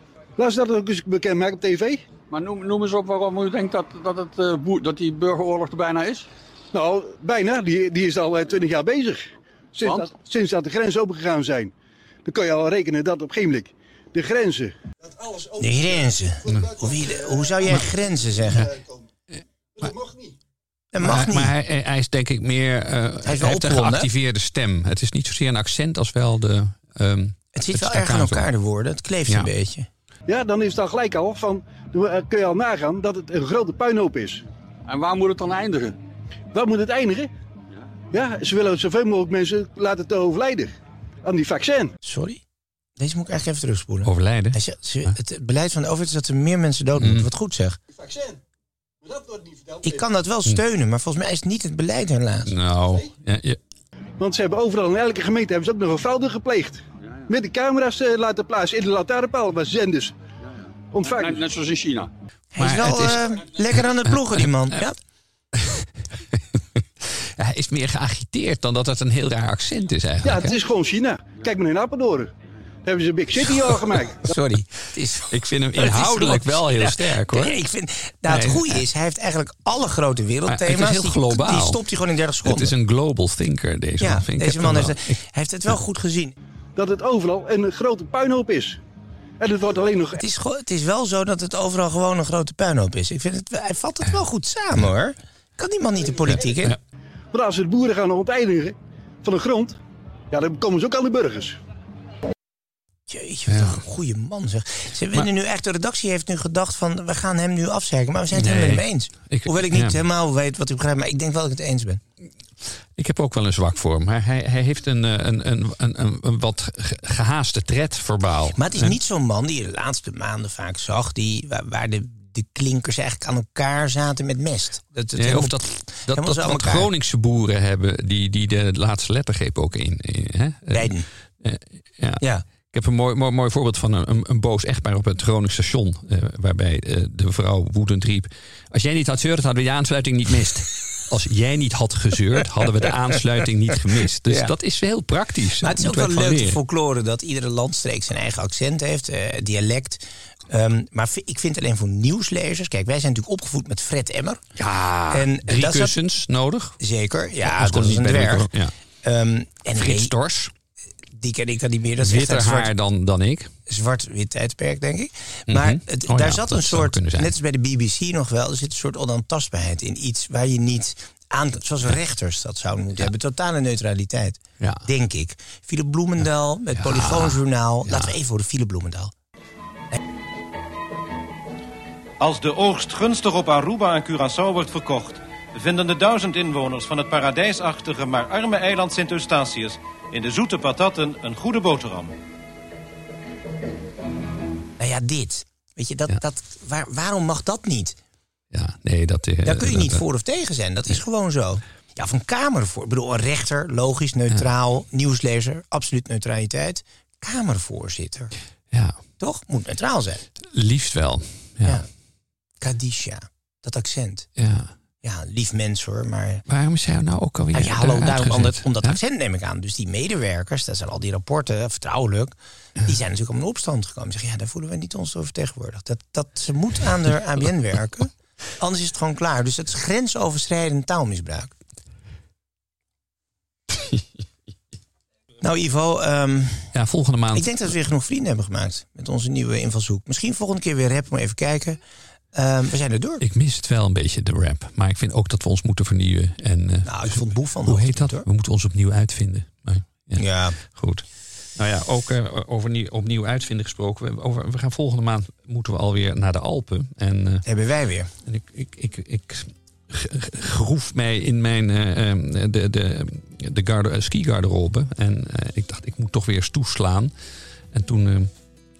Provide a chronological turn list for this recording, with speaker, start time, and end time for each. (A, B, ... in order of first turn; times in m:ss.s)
0:00.4-0:02.1 A
0:02.3-0:06.3 B
0:06.7-0:11.7 A
0:09.8-0:10.1 B
0:12.2-0:15.5 A
0:15.6-0:18.7 C
0:19.8-0:20.3 A
0:20.9-0:21.5 C
0:21.0-0:28.5 D
0:23.2-0:24.1 C
0:27.5-0:29.9 C
0:30.3-0:34.4 A
0:34.9-0:36.0 B
0:36.5-0:37.3 A
0:38.1-0:40.7 A
0:41.3-0:41.9 A
0:42.0-0:42.4 C
0:43.0-0:47.8 C
0:44.0-0:45.2 D
0:47.0-0:47.3 D
0:48.0-0:48.4 A
0:49.0-0:49.9 A
0:49.8-0:52.6 C
0:52.5-0:53.6 D
0:54.2-1:00.1 A
1:00.9-1:01.4 A
1:01.1-1:02.1 B
1:02.5-1:05.0 C
1:02.6-1:04.2 D
1:05.6-1:10.5 D
1:10.2-1:12.3 A
1:12.9-1:14.3 A
1:14.2-1:22.7 C
1:15.3-1:17.6 D
1:18.3-1:18.8 D
1:20.5-1:21.8 D
1:22.4-1:25.2 D
1:24.0-1:26.3 C
1:26.8-1:28.8 A
1:29.4-1:30.2 A
1:30.2-1:36.8 C
1:37.3-1:39.8 A
1:40.3-1:41.6 A
1:43.1-1:52.0 C
1:43.5-1:43.8 D
1:48.3-1:50.0 D
1:53.0-1:59.0 D
1:58.6-2:06.9 C
2:05.2-2:26.6 D
2:10.7-2:11.1 C
2:24.3-2:24.5 C
2:25.6-2:34.4 C
2:34.6-2:36.8 D
2:35.1-2:36.0 C
2:36.8-2:38.5 C
2:37.4-2:38.8 D
2:39.0-2:40.1 C
2:39.8-2:40.5 D
2:41.1-2:42.7 C
2:42.0-2:43.5 D
2:43.7-2:59.1 C
2:45.5-2:47.3 D
2:54.6-2:54.9 D
2:56.8-2:58.1 D
3:02.2-3:12.1 E
3:14.8-3:18.0 C
3:18.5-3:20.0 D
3:19.4-3:28.3 C
3:28.7-3:29.0 D
3:29.2-3:30.2 C
3:30.5-3:31.8 D
3:31.6-3:31.9 C
3:32.6-3:34.3 C
3:34.4-3:34.8 D
3:35.0-3:36.4 C
3:36.5-3:39.0 D
3:37.5-3:51.5 C
3:55.4-3:56.8 C
3:56.7-3:57.5 D
3:57.3-4:01.8 C
4:02.3-4:03.2 C
4:03.2-4:17.4 D
4:06.8-4:08.3 C
4:10.2-4:10.6 C
4:17.4-4:18.1 C
4:18.2-4:27.1 D
4:27.7-4:28.3 D